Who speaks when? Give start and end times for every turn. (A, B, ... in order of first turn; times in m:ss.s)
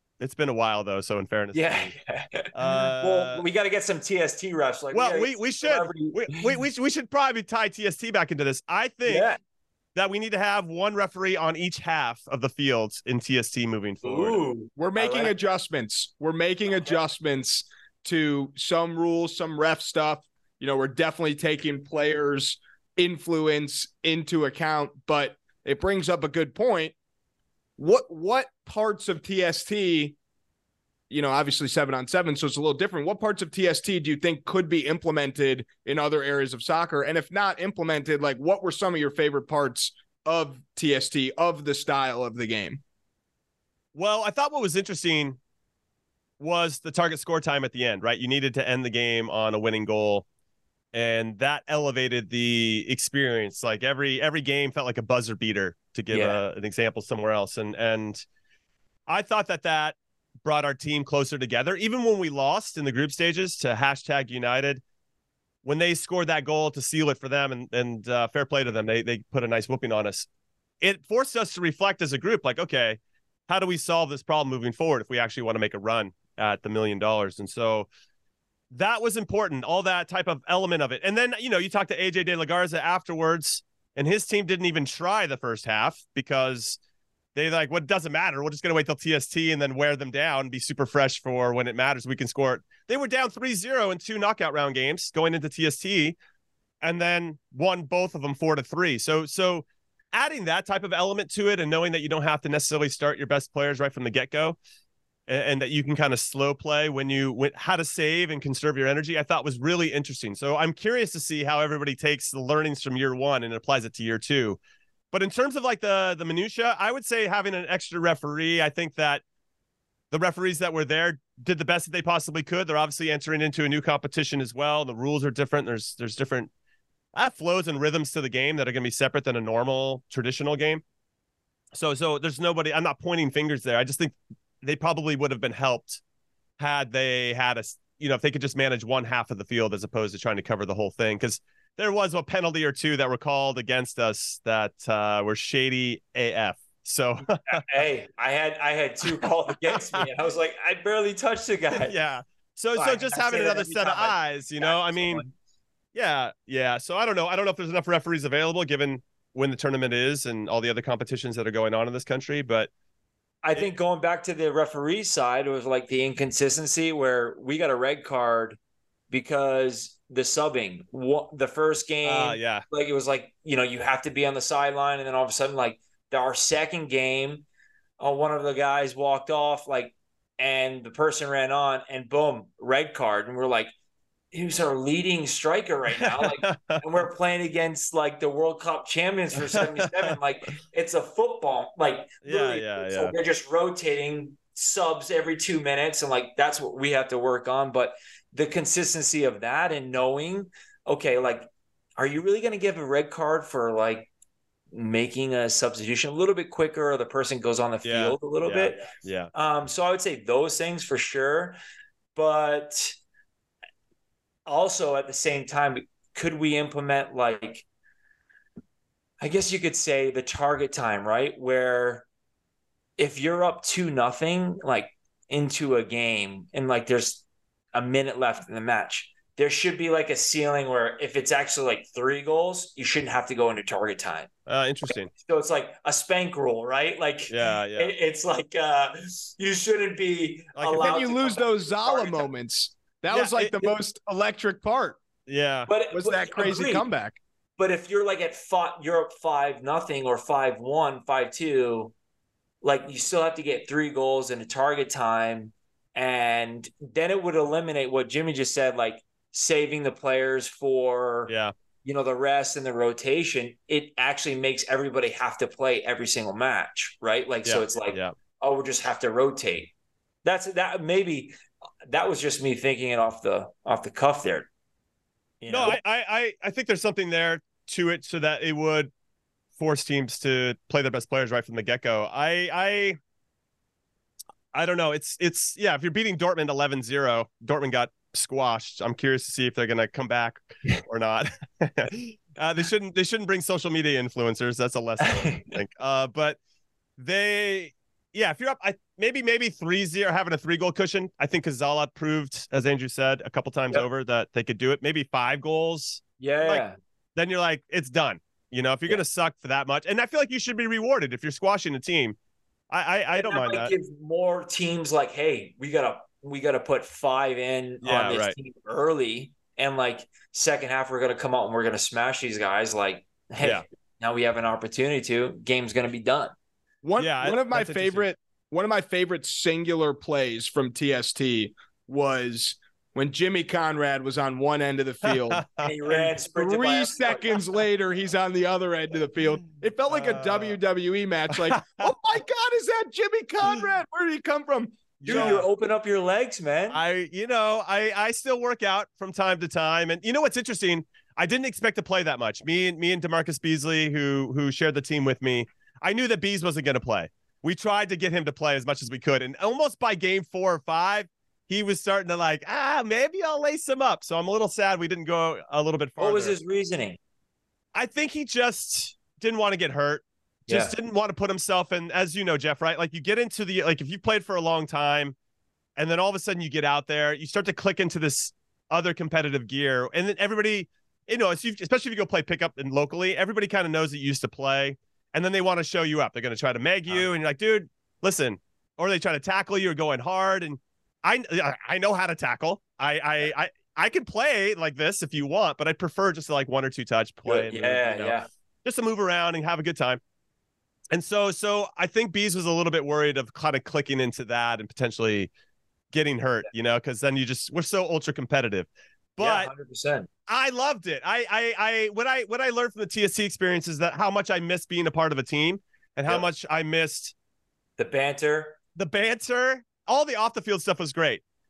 0:00.2-0:01.9 A
0:01.5-0:06.5 B
0:02.5-0:03.4 A
0:04.9-0:09.3 A
0:09.0-0:09.4 B
0:10.0-0:14.4 A
0:14.0-0:15.4 B
0:14.8-0:26.9 C
0:27.8-0:30.2 C
0:31.1-0:42.8 C
0:43.9-0:45.4 A
0:46.4-0:50.2 A
0:50.9-0:58.2 A
0:56.1-0:56.4 B
0:59.1-1:04.8 A
1:05.6-1:10.3 A
1:10.8-1:17.9 A
1:18.7-1:26.8 A
1:27.3-1:36.2 A
1:36.8-1:44.6 A
1:45.3-1:54.6 A
1:55.1-1:59.2 A
2:00.1-2:06.5 A
2:07.1-2:10.8 A
2:11.7-2:16.0 A
2:16.6-2:27.6 A
2:27.2-2:31.9 B
2:29.7-2:30.1 A
2:31.8-2:35.2 A
2:32.7-2:35.3 B
2:35.9-2:42.7 A
2:43.4-2:48.6 B
2:49.1-2:57.4 B
2:52.0-2:52.6 A
2:58.0-3:03.7 B
3:04.3-3:24.1 B
3:06.0-3:06.8 A
3:09.4-3:10.1 A
3:12.2-3:13.1 A
3:24.7-3:31.6 B
3:27.8-3:29.3 A
3:32.1-3:32.9 B
3:34.5-3:37.6 B
3:39.2-3:42.0 B
3:43.0-3:54.3 B
3:54.4-3:55.1 A
3:54.9-4:02.3 B
3:57.3-3:57.9 A
4:00.6-4:01.0 A
4:00.8-4:05.0 C
4:03.1-4:03.7 A
4:05.3-4:05.7 A
4:05.7-4:06.9 B
4:05.9-4:07.2 C
4:07.6-4:11.9 B
4:12.6-4:21.3 B
4:21.3-4:21.5 A
4:21.8-4:29.7 B
4:27.4-4:28.1 A
4:30.2-4:31.3 B
4:31.9-4:34.5 B
4:35.4-4:35.8 B
4:35.5-4:38.9 A
4:39.6-4:43.0 A
4:44.5-4:56.4 A
4:55.0-4:55.5 B
4:57.0-5:06.6 A
5:06.2-5:06.8 B
5:07.2-5:12.2 A
5:12.7-5:13.7 A
5:13.1-5:26.3 B
5:17.8-5:18.3 A
5:26.8-5:35.4 C
5:27.0-5:28.0 A
5:35.0-5:36.1 A
5:35.6-5:37.4 B
5:36.3-5:45.4 C
5:39.9-5:40.6 A
5:41.3-5:41.9 A
5:45.0-5:45.5 A
5:45.0-5:46.8 B
5:46.7-6:06.4 A
6:06.0-6:07.0 B
6:07.7-6:15.1 A
6:10.5-6:10.7 B
6:15.8-6:40.0 A
6:37.2-6:38.2 B
6:40.9-6:45.3 A
6:45.9-6:49.5 A
6:49.2-6:50.1 B
6:50.3-6:57.1 A
6:57.8-6:58.6 B
6:58.7-7:01.2 A